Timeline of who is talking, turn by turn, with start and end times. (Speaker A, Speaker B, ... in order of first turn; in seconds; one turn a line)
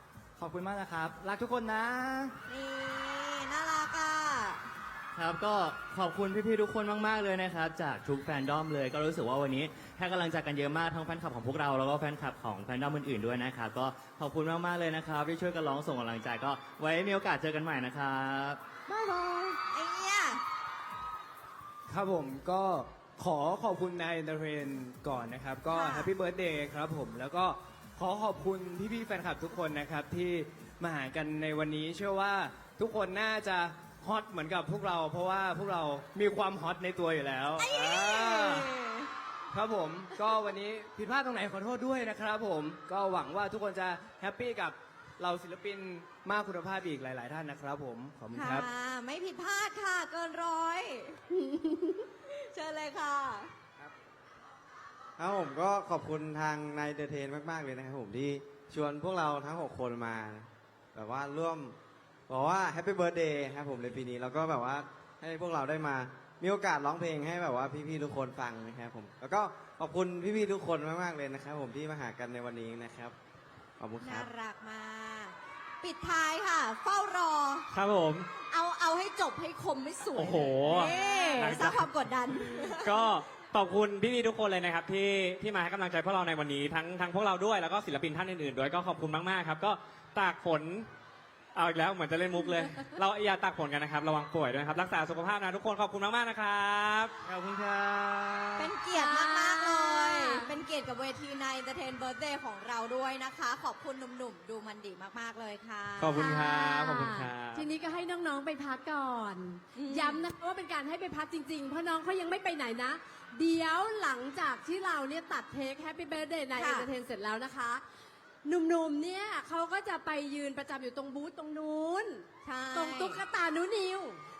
Speaker A: 0.4-2.3
Speaker B: 2.5-4.7
Speaker C: 5.1-18.6
Speaker D: 18.9-19.6
Speaker B: 19.7-20.4
Speaker D: 21.9-38.7
Speaker B: 25.7-26.1
Speaker B: 37.6-39.1
Speaker D: 39.5-48.7
Speaker B: 48.3-53.5
Speaker E: 55.2-61.8
Speaker E: 62.3-73.1
Speaker E: 73.8-74.3
Speaker B: 74.0-77.7
Speaker F: 77.7-78.3
Speaker B: 78.4-83.1
Speaker F: 80.1-81.9
Speaker F: 82.4-90.9
Speaker F: 91.5-97.1
Speaker C: 97.3-98.6
Speaker B: 98.6-106.3
Speaker G: 99.0-100.5
Speaker F: 106.0-107.7
Speaker G: 106.2-117.8
Speaker B: 109.7-110.2
Speaker B: 116.6-116.9
Speaker G: 118.4-124.2
Speaker B: 122.4-123.2